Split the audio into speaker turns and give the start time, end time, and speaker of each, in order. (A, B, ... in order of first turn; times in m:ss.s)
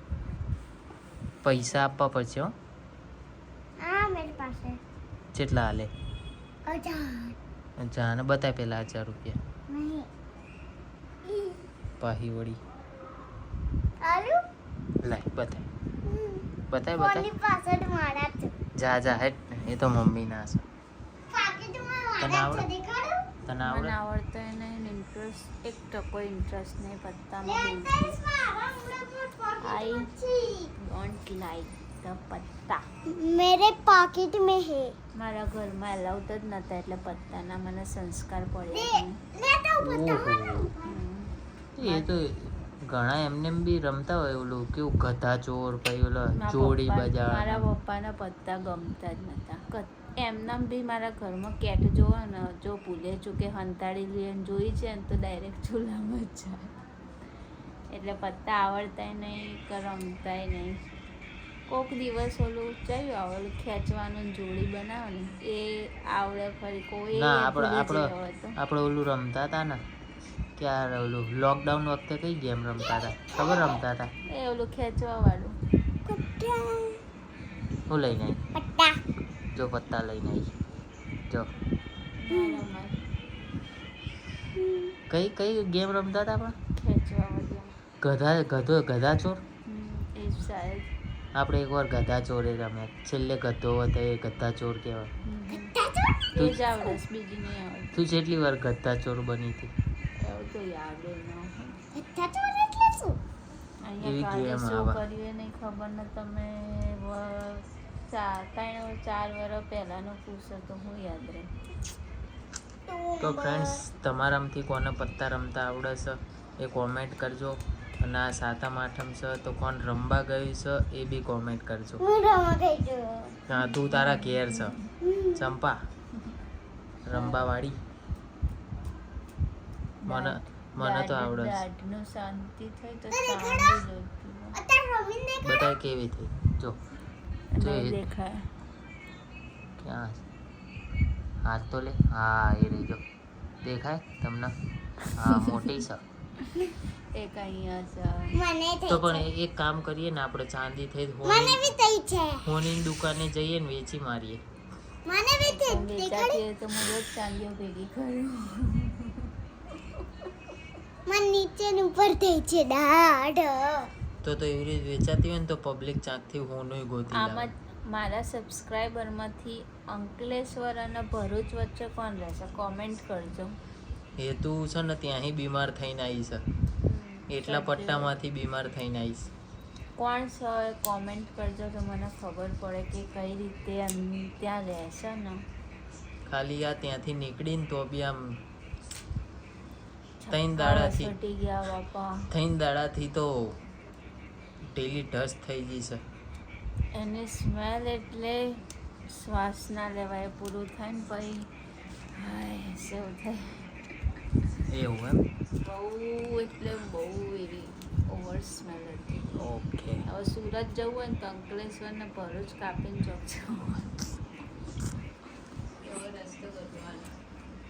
0:01.4-0:02.5 A
0:03.8-0:04.8 B
0:05.3-0:05.9 A
0:06.6-0:07.3 B
0:07.8-0:09.4 A
0:09.7-0:10.1 B
0:11.2-0:11.6 B
0:12.0-0:12.6 A
0:14.0-0:14.4 B
0:15.0-0:15.6 A
0:16.0-0:18.5 B
0:16.7-0:17.3 A
0:18.8-0:20.6 A
0:21.3-0:23.3 B
0:22.2-0:22.7 A
0:23.4-0:24.0 A
0:23.6-0:28.2 C
0:27.4-0:30.7 B
0:29.6-0:30.1 C
0:30.8-0:32.8 C
0:33.1-0:34.9 B
0:35.2-0:39.2 C
0:38.7-0:40.9 B
0:39.8-0:40.7 A
0:40.8-0:42.1 C
0:41.8-0:47.6 A
0:46.3-0:56.7 C
0:57.9-1:00.8 C
1:01.7-1:08.5 C
1:07.2-1:09.8 A
1:10.6-1:14.1 A
1:12.9-1:13.7 B
1:14.3-1:15.5 C
1:16.0-1:17.0 B
1:17.9-1:18.4 A
1:18.5-1:19.0 B
1:19.5-1:20.5 A
1:22.2-1:23.0 C
1:22.3-1:22.6 B
1:24.6-1:24.9 B
1:25.1-1:26.5 A
1:26.8-1:27.7 C
1:28.0-1:29.4 A
1:29.7-1:30.9 C
1:31.4-1:35.1 A
1:35.3-1:35.7 C
1:35.5-1:36.3 B
1:36.3-1:38.0 C
1:36.4-1:36.6 A
1:37.9-1:39.7 A
1:40.2-1:41.8 C
1:41.9-1:43.2 B
1:43.8-1:51.5 C
1:44.0-1:45.0 A
1:52.9-1:53.8 B
1:53.2-2:02.0 A
2:02.0-2:03.3 B
2:03.5-2:04.7 A
2:03.6-2:04.7 C
2:05.0-2:05.4 B
2:05.4-2:05.8 A
2:07.1-2:07.8 A
2:10.0-2:14.6 C
2:10.0-2:11.6 A
2:13.1-2:13.8 B
2:14.5-2:15.7 B
2:15.4-2:16.8 A
2:17.5-2:18.4 C
2:17.6-2:18.0 A
2:19.8-2:20.2 A
2:21.4-2:23.0 A
2:23.6-2:24.5 A
2:25.2-2:26.0 A
2:27.1-2:28.3 C
2:28.3-2:29.2 B
2:28.9-2:31.7 A
2:31.2-2:32.4 B
2:32.4-2:34.4 A
2:35.0-2:36.4 B
2:35.4-2:39.3 C
2:41.1-2:43.9 B
2:44.2-2:47.5 A
2:47.2-2:53.5 C
2:54.2-2:56.4 A
2:56.8-2:58.1 C
2:57.3-2:59.3 A
3:00.0-3:05.4 C
3:06.3-3:08.2 A
3:10.2-3:12.2 C
3:10.3-3:11.1 A
3:12.3-3:13.6 A
3:14.7-3:16.0 A
3:16.9-3:18.6 C
3:19.1-3:21.5 C
3:22.1-3:23.7 C
3:24.7-3:25.2 A
3:25.6-3:29.3 C
3:29.4-3:30.0 A
3:30.0-3:34.0 C
3:35.8-3:37.1 C